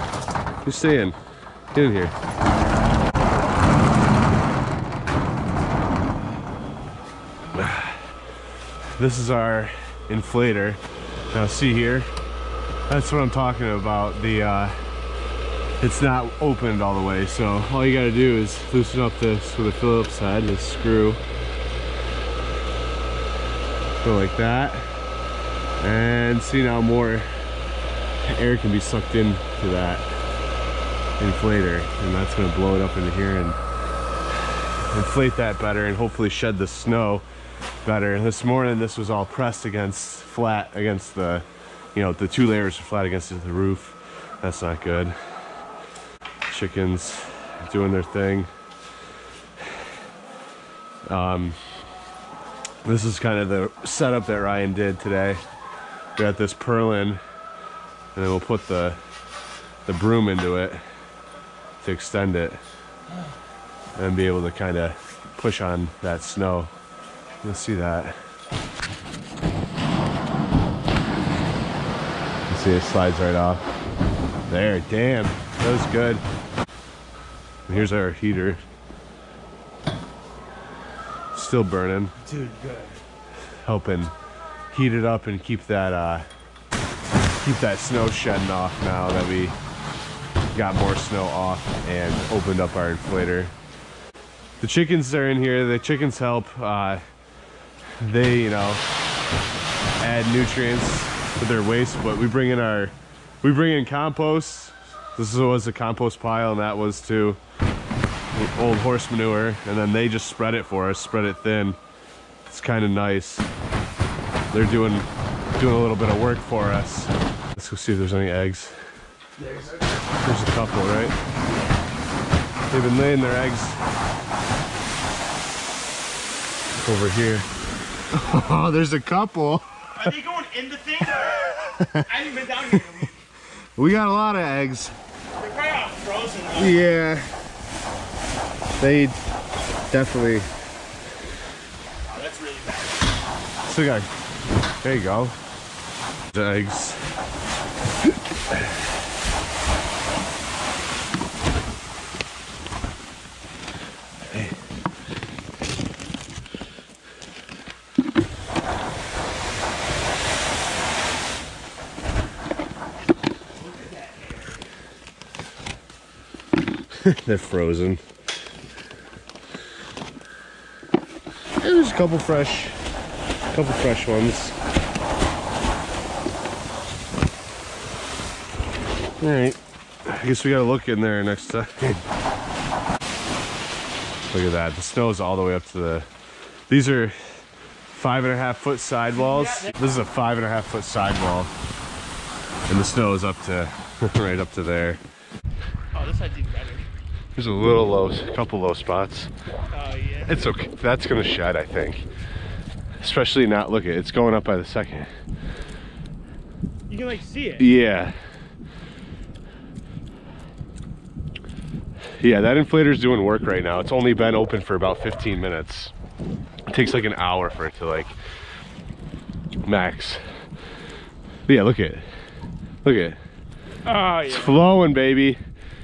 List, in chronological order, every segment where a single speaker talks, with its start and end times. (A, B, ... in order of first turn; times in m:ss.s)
0:00.6-0:01.2 A
0:01.7-0:02.1 A
0:07.5-0:08.0 A
0:09.0-0:12.1 A
0:12.9-0:14.8 A
0:15.8-0:21.2 A
0:24.0-0:24.9 A
0:25.8-0:27.3 A
0:28.2-0:30.1 A
0:31.2-0:33.6 A
0:34.9-0:37.3 A
0:37.8-0:45.2 A
0:46.5-0:48.5 A
0:51.1-0:51.6 A
0:52.8-0:55.4 A
0:56.2-0:57.2 A
0:58.2-0:59.0 A
0:59.9-1:00.8 A
1:01.8-1:02.6 A
1:04.0-1:06.7 A
1:07.4-1:08.2 A
1:12.5-1:13.6 A
1:14.5-1:16.2 A
1:17.7-1:18.6 A
1:21.3-1:22.2 A
1:22.3-1:22.9 B
1:23.6-1:24.1 A
1:24.7-1:26.3 A
1:27.4-1:29.6 A
1:30.5-1:33.5 A
1:34.6-1:37.0 A
1:38.0-1:38.8 A
1:40.0-1:47.4 A
1:48.3-1:51.8 A
1:52.5-1:53.5 A
1:54.5-1:58.8 A
2:00.2-2:01.2 A
2:02.7-2:03.8 A
2:06.7-2:07.5 A
2:08.1-2:10.2 A
2:10.0-2:11.5 B
2:11.1-2:13.1 A
2:12.0-2:13.1 B
2:13.8-2:15.0 A
2:15.4-2:16.8 B
2:16.5-2:17.4 A
2:18.8-2:19.2 A
2:19.9-2:20.5 A
2:22.1-2:23.0 B
2:23.7-2:24.1 A
2:24.8-2:25.4 A
2:26.3-2:27.1 A
2:46.9-2:48.0 A
2:51.6-2:52.8 A
2:53.5-2:54.6 A
2:59.2-3:02.1 A
3:04.3-3:06.1 A
3:06.7-3:07.2 A
3:07.9-3:11.5 A
3:12.7-3:15.0 A
3:15.9-3:16.9 B
3:17.4-3:19.3 A
3:19.7-3:20.4 B
3:20.3-3:22.1 A
3:23.0-3:25.1 A
3:26.9-3:27.7 B
3:27.6-3:28.2 A
3:32.2-3:35.9 A
3:36.7-3:38.2 A
3:39.6-3:40.2 A
3:41.5-3:42.0 A
3:42.8-3:43.2 A
3:43.8-3:44.6 B
3:44.2-3:45.4 A